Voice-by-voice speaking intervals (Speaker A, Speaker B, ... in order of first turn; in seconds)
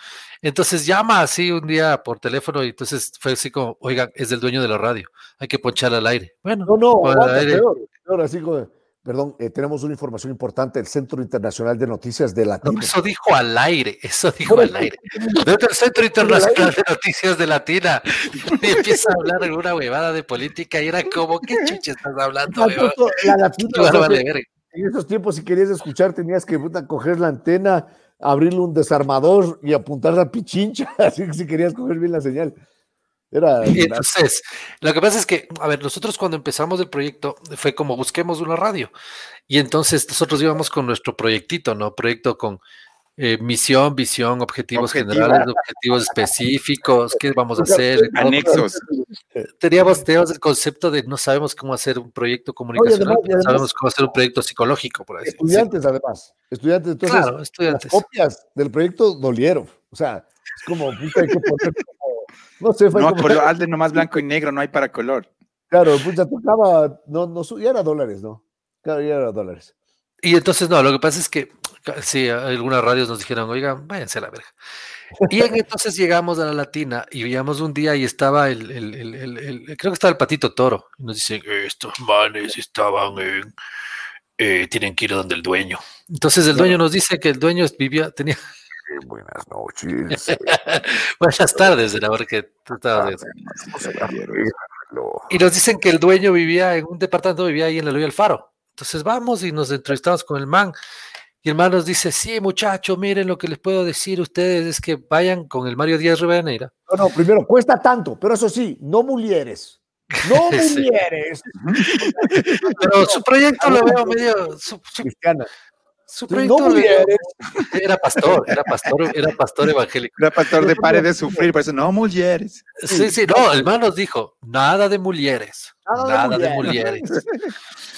Speaker A: 0.4-7.7, 12.6-24.5, 33.7-38.9, 39.5-42.6, 43.2-48.6, 49.6-55.7, 57.0-58.0, 70.2-74.5, 75.2-83.5, 84.4-88.4, 90.1-93.2, 95.3-100.7, 101.4-106.7, 110.3-110.8, 112.8-115.1, 116.1-117.1, 117.7-120.1, 122.8-127.1
Speaker B: 6.7-12.9, 14.5-15.5, 16.2-16.7, 22.5-32.5, 33.3-34.1, 47.6-49.2, 52.8-53.7, 55.2-64.2, 65.7-69.7, 88.9-90.6, 93.8-95.3, 106.9-114.2, 115.0-115.5, 116.3-117.3, 120.6-121.5, 122.9-123.7, 125.9-127.2
Speaker C: 44.8-45.5, 48.1-48.8, 62.9-65.3, 93.0-94.5, 111.6-112.7, 120.2-122.7